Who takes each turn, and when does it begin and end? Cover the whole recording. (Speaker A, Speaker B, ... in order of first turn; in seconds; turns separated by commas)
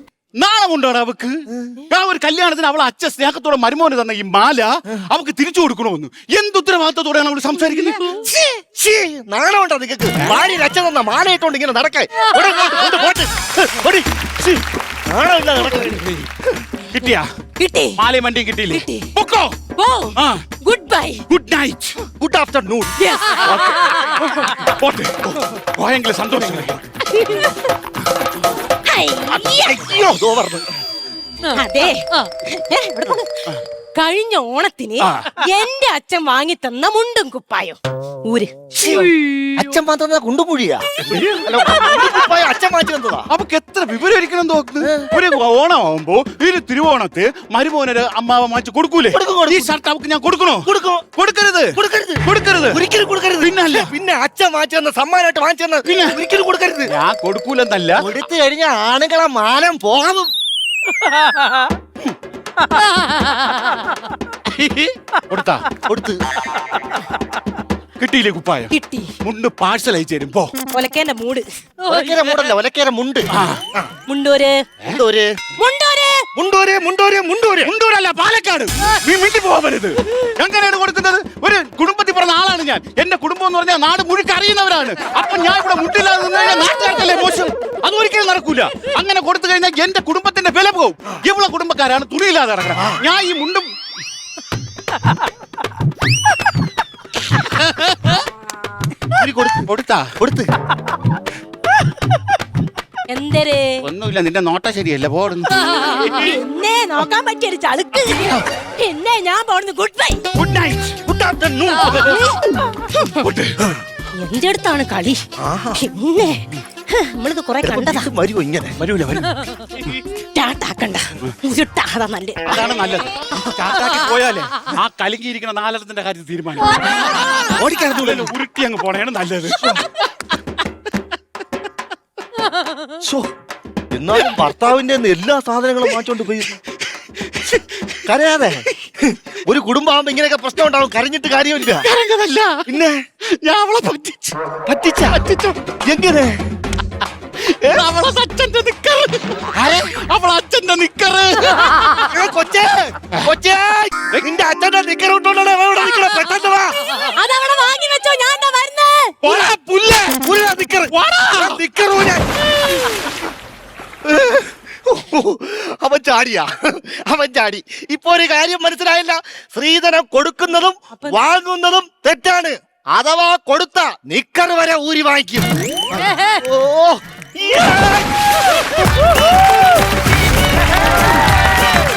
Speaker A: 0.3-8.2, Speaker B: 8.1-16.5, Speaker A: 15.8-16.2, Speaker A: 16.9-17.3, Speaker C: 17.6-18.0, Speaker A: 18.0-19.6, Speaker C: 18.7-19.1, Speaker C: 19.8-21.2, Speaker A: 20.1-20.4, Speaker A: 21.3-22.0, Speaker B: 22.1-22.9, Speaker C: 23.0-23.9, Speaker A: 24.2-26.9, Speaker C: 27.1-27.6, Speaker C: 28.8-29.9, Speaker B: 29.6-30.7, Speaker C: 31.5-33.3, Speaker C: 34.0-39.5, Speaker B: 38.8-40.9, Speaker A: 41.0-42.2, Speaker B: 41.4-43.3, Speaker A: 43.3-52.8, Speaker B: 44.8-45.1, Speaker B: 49.1-49.7, Speaker B: 50.6-51.0, Speaker B: 51.7-56.9, Speaker A: 53.4-53.9, Speaker A: 55.8-56.2, Speaker A: 56.9-58.0, Speaker B: 58.0-60.3, Speaker A: 64.5-65.7, Speaker B: 65.8-66.2, Speaker A: 68.0-68.7, Speaker C: 68.7-69.1, Speaker A: 69.2-70.5, Speaker C: 70.7-71.5, Speaker B: 71.8-73.9, Speaker A: 73.3-73.6, Speaker C: 74.1-74.6, Speaker B: 74.9-75.3, Speaker C: 75.6-76.2, Speaker B: 76.3-77.7, Speaker A: 77.6-93.7, Speaker A: 97.6-98.2, Speaker B: 99.2-99.7, Speaker A: 99.7-100.1, Speaker B: 100.2-100.5, Speaker C: 103.1-103.8, Speaker A: 103.8-105.5, Speaker C: 106.0-110.3, Speaker A: 110.3-111.0, Speaker B: 111.0-112.1, Speaker C: 111.9-112.4, Speaker C: 112.9-113.2, Speaker A: 113.2-113.7, Speaker C: 114.2-115.2, Speaker B: 115.4-115.8, Speaker C: 115.8-118.1, Speaker B: 117.6-118.8, Speaker A: 118.8-119.9, Speaker C: 120.3-122.4, Speaker A: 122.5-130.0, Speaker B: 127.6-128.3, Speaker B: 133.0-133.3, Speaker B: 133.9-136.6, Speaker A: 137.2-138.0, Speaker B: 138.0-141.9, Speaker A: 141.6-142.7, Speaker B: 142.7-143.0, Speaker A: 143.4-144.4, Speaker B: 144.7-145.2, Speaker A: 145.1-145.6, Speaker B: 145.8-146.4, Speaker A: 147.4-152.0, Speaker B: 152.1-156.8, Speaker C: 157.0-159.1, Speaker A: 159.2-160.3, Speaker B: 160.1-162.9, Speaker A: 160.9-161.6, Speaker B: 164.0-178.2, Speaker C: 170.9-171.2